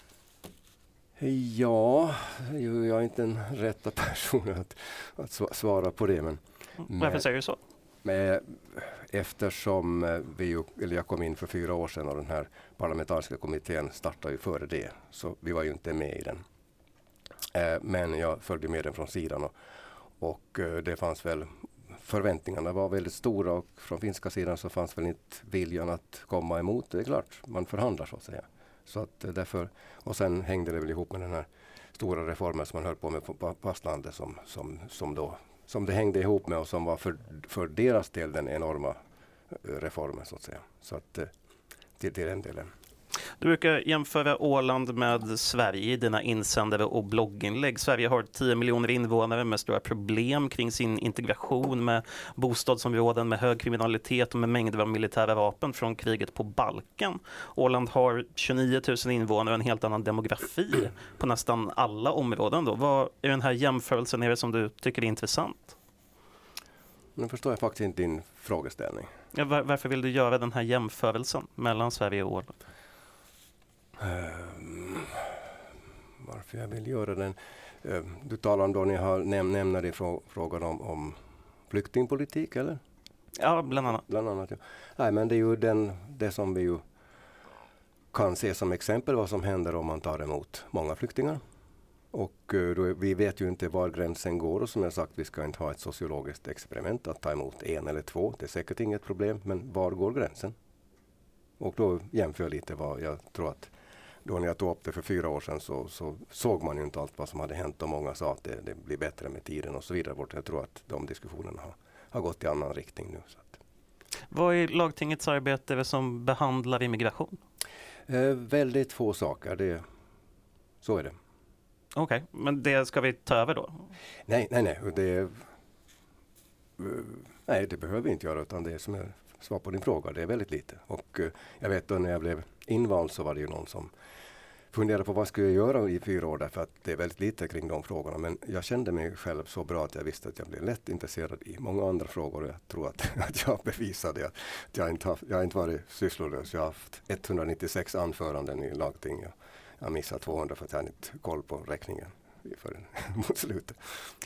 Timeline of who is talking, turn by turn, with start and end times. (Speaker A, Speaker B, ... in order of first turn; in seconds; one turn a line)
Speaker A: 1.2-7.2
Speaker B: 6.9-7.6
Speaker A: 8.0-16.4
Speaker A: 17.5-19.5
Speaker A: 20.2-39.0
Speaker A: 39.5-41.3
Speaker A: 42.0-42.7
Speaker B: 43.4-65.7
Speaker A: 67.2-69.1
Speaker B: 69.3-72.5
Speaker A: 74.0-75.4
Speaker A: 76.2-81.2
Speaker A: 81.7-82.8
Speaker B: 83.3-84.0
Speaker A: 84.0-86.8
Speaker A: 88.1-91.4
Speaker A: 92.1-100.5
Speaker A: 101.6-103.7
Speaker A: 104.2-113.6
Speaker B: 114.3-117.4
Speaker A: 118.1-119.8
Speaker A: 120.8-121.2
Speaker B: 121.9-123.8
Speaker A: 124.3-125.5
Speaker A: 126.8-133.9
Speaker A: 134.7-153.8